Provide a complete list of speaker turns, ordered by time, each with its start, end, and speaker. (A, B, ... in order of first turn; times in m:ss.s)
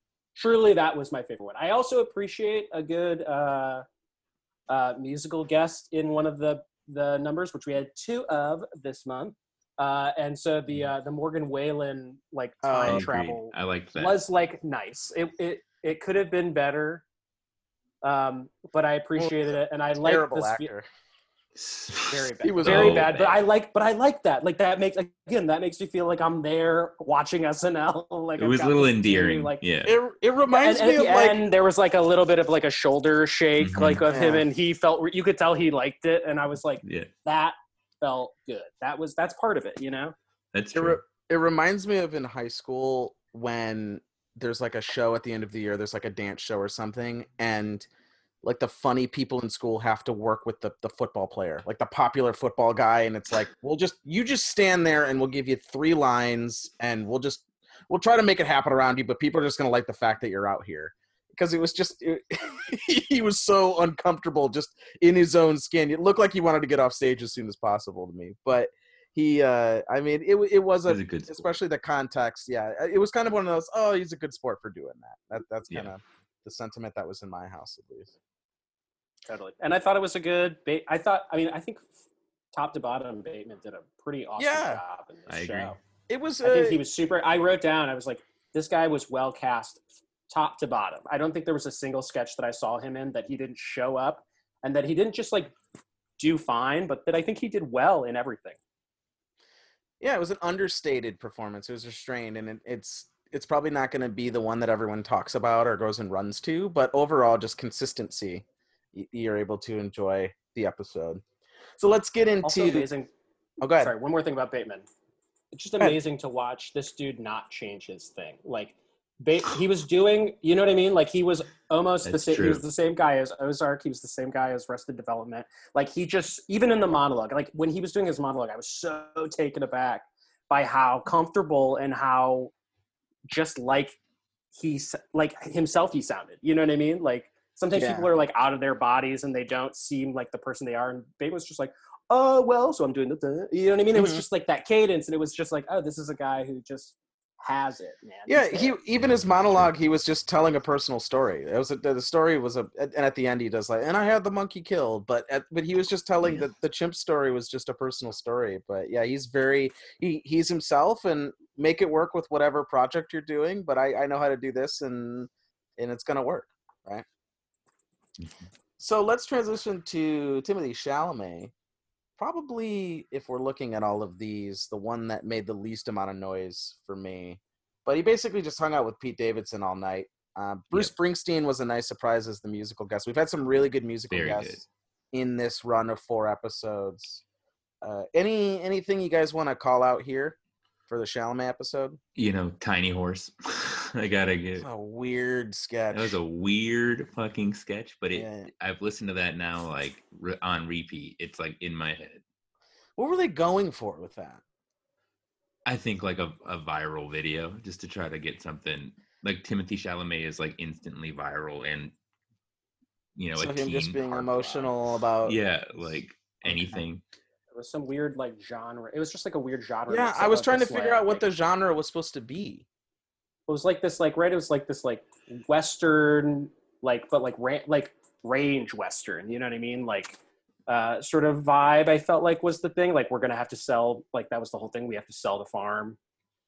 0:00.3-0:03.8 A
0:04.7-0:17.0 A
0:12.6-0:13.0 B
0:12.9-0:14.2 C
0:18.0-0:20.7 A
0:19.2-0:19.5 B
0:20.0-0:20.9 B
0:21.6-0:23.4 C
0:22.1-0:29.6 A
0:22.4-0:23.1 B
0:28.4-0:29.9 C
0:29.8-0:31.4 B
0:30.5-0:40.1 A
0:33.6-0:34.0 C
0:34.1-0:34.4 B
0:36.8-0:37.1 C
0:40.5-0:41.0 C
0:40.7-0:47.9 B
0:48.4-1:18.1 B
1:10.9-1:11.5 C
1:19.3-1:21.9 A
1:22.5-1:25.8 A
1:24.4-1:24.8 B
1:25.3-1:25.7 C
1:26.1-1:26.8 B
1:26.4-1:35.5 A
1:36.2-1:38.6 A
1:40.0-1:51.2 B
1:51.8-1:52.9 B
1:52.4-1:53.1 A
1:53.6-1:53.9 B
1:53.8-1:54.8 A
1:55.5-2:12.5 A
2:02.0-2:02.6 C
2:13.3-2:14.0 A
2:14.5-2:28.8 A
2:17.7-2:18.1 B
2:23.9-2:24.2 B
2:28.3-2:47.0 B
2:29.0-2:29.7 C
2:48.8-2:51.5 B
2:52.2-3:07.2 B
3:04.1-3:04.6 C
3:07.8-3:12.0 B
3:12.2-3:14.6 C
3:14.6-3:16.1 B
3:15.9-3:22.2 C
3:18.1-3:18.5 B
3:23.0-3:24.4 B
3:25.6-3:31.9 C
3:33.2-3:37.0 C
3:33.3-3:35.4 B
3:36.4-3:36.8 B
3:37.5-3:41.2 A
3:39.9-3:42.6 B
3:43.5-3:56.0 A